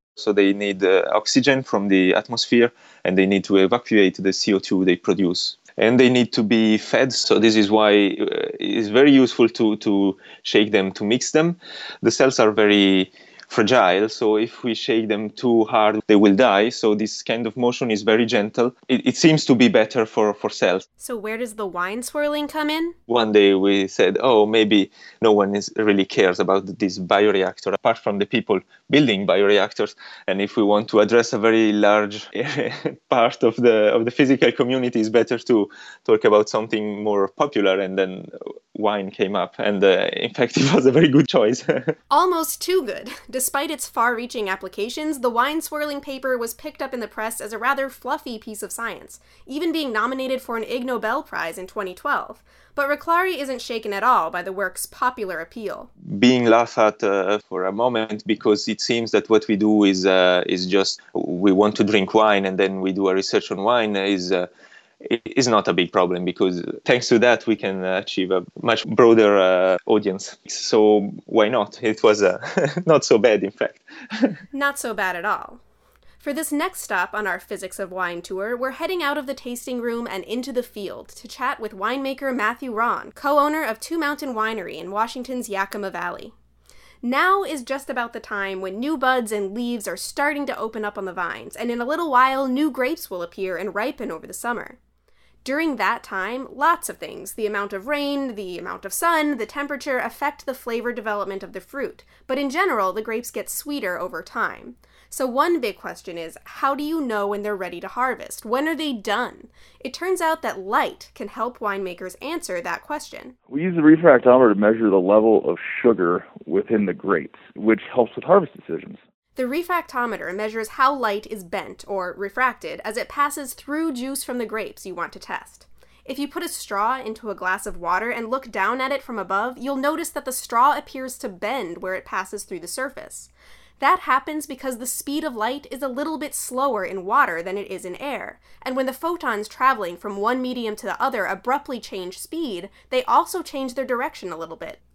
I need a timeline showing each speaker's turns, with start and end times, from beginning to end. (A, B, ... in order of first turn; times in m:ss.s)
0:00.2-0:20.9 A
0:21.0-0:23.0 B
0:23.1-0:42.0 A
0:42.1-0:55.9 B
0:56.1-1:04.5 A
1:05.0-1:14.4 A
1:14.5-1:15.6 B
1:16.2-1:26.4 B
1:27.0-1:34.8 B
1:35.4-1:53.4 B
1:53.5-1:59.0 C
1:59.4-2:24.8 B